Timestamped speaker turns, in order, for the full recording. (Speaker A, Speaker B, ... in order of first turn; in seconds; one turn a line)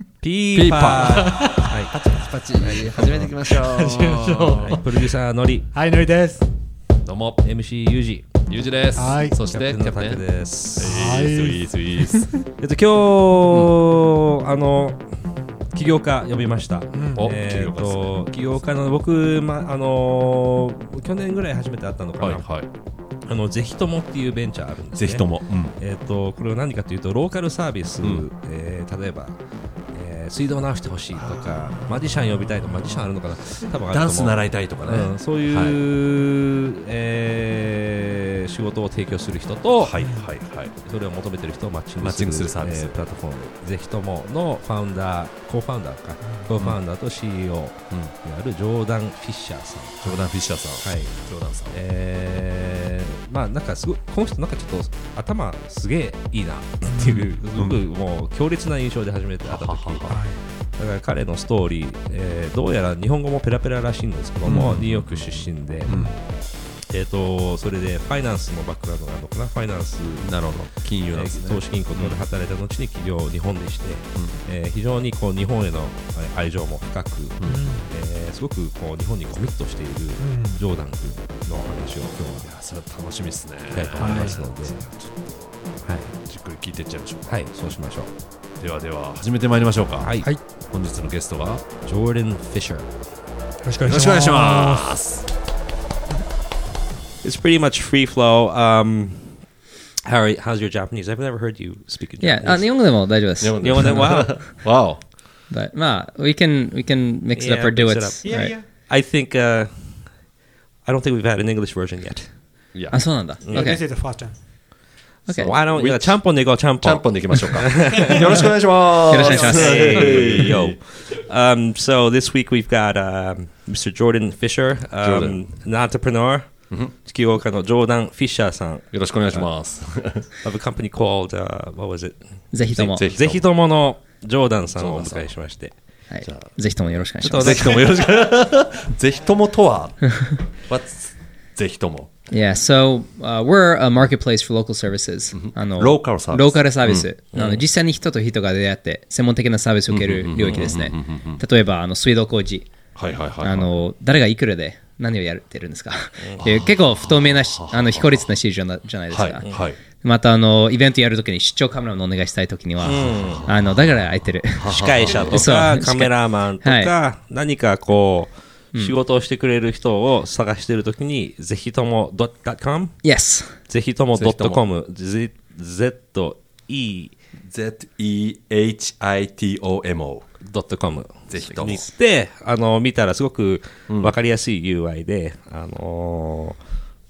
Speaker A: 0.2-1.9
Speaker B: 0.5-4.8
Speaker C: 1.6-4.8
Speaker A: 4.7-5.7
Speaker C: 5.7-6.5
Speaker B: 7.0-7.5
Speaker A: 7.4-8.4
Speaker B: 8.5-12.4
Speaker C: 8.9-9.4
Speaker A: 9.4-11.2
Speaker C: 10.8-12.3
Speaker A: 12.6-22.6
Speaker C: 16.9-17.3
Speaker B: 17.1-18.6
Speaker B: 22.2-22.7
Speaker A: 23.2-40.0
Speaker B: 25.0-25.8
Speaker B: 28.0-28.3
Speaker B: 31.2-32.1
Speaker B: 33.9-35.8
Speaker B: 39.8-40.8
Speaker C: 40.0-40.3
Speaker A: 40.8-50.2
Speaker B: 42.0-43.0
Speaker B: 50.0-51.8
Speaker A: 50.8-51.2
Speaker A: 51.7-82.5
Speaker C: 56.9-57.4
Speaker B: 57.5-57.8
Speaker B: 59.5-60.2
Speaker C: 60.1-60.4
Speaker C: 64.5-64.8
Speaker B: 64.5-66.2
Speaker C: 65.8-66.2
Speaker B: 70.2-72.2
Speaker C: 77.5-77.9
Speaker C: 80.2-80.6
Speaker B: 82.5-85.3
Speaker A: 83.7-84.9
Speaker C: 84.0-84.4
Speaker A: 85.8-86.1
Speaker B: 86.2-87.5
Speaker A: 87.3-88.1
Speaker B: 88.6-91.7
Speaker A: 90.0-90.4
Speaker A: 91.8-92.9
Speaker C: 93.6-95.0
Speaker B: 93.8-95.3
Speaker A: 97.2-99.5
Speaker A: 100.0-102.7
Speaker D: 102.2-104.1
Speaker B: 103.4-105.1
Speaker A: 103.6-104.5
Speaker D: 105.5-108.5
Speaker A: 107.3-110.3
Speaker C: 108.2-108.7
Speaker A: 110.8-112.4
Speaker B: 112.7-113.0
Speaker D: 112.9-113.8
Speaker A: 113.4-113.8
Speaker C: 113.5-114.4
Speaker D: 115.3-115.5
Speaker B: 115.3-120.8
Speaker A: 115.4-118.4
Speaker D: 119.1-120.4
Speaker A: 119.2-129.5
Speaker C: 119.3-120.3
Speaker B: 125.0-125.5
Speaker B: 128.9-130.3
Speaker A: 130.2-135.8
Speaker D: 132.5-133.0
Speaker B: 133.0-133.5
Speaker B: 134.8-135.4
Speaker D: 136.1-137.7
Speaker B: 136.2-136.8
Speaker A: 137.2-137.9
Speaker B: 137.3-142.3
Speaker D: 142.3-152.7
Speaker B: 145.3-147.1
Speaker A: 147.3-147.6
Speaker B: 149.9-151.4
Speaker A: 150.4-150.8
Speaker B: 152.9-153.8
Speaker D: 153.4-166.9
Speaker A: 156.2-156.6
Speaker B: 156.4-158.3
Speaker B: 159.1-159.8
Speaker A: 162.8-163.5
Speaker B: 162.9-163.8
Speaker B: 164.6-165.4
Speaker A: 164.6-173.1
Speaker D: 173.0-173.6
Speaker A: 173.6-177.1
Speaker B: 174.1-174.6
Speaker B: 177.4-180.3
Speaker A: 180.4-186.6
Speaker B: 181.3-181.8
Speaker D: 181.4-181.9
Speaker B: 183.9-184.2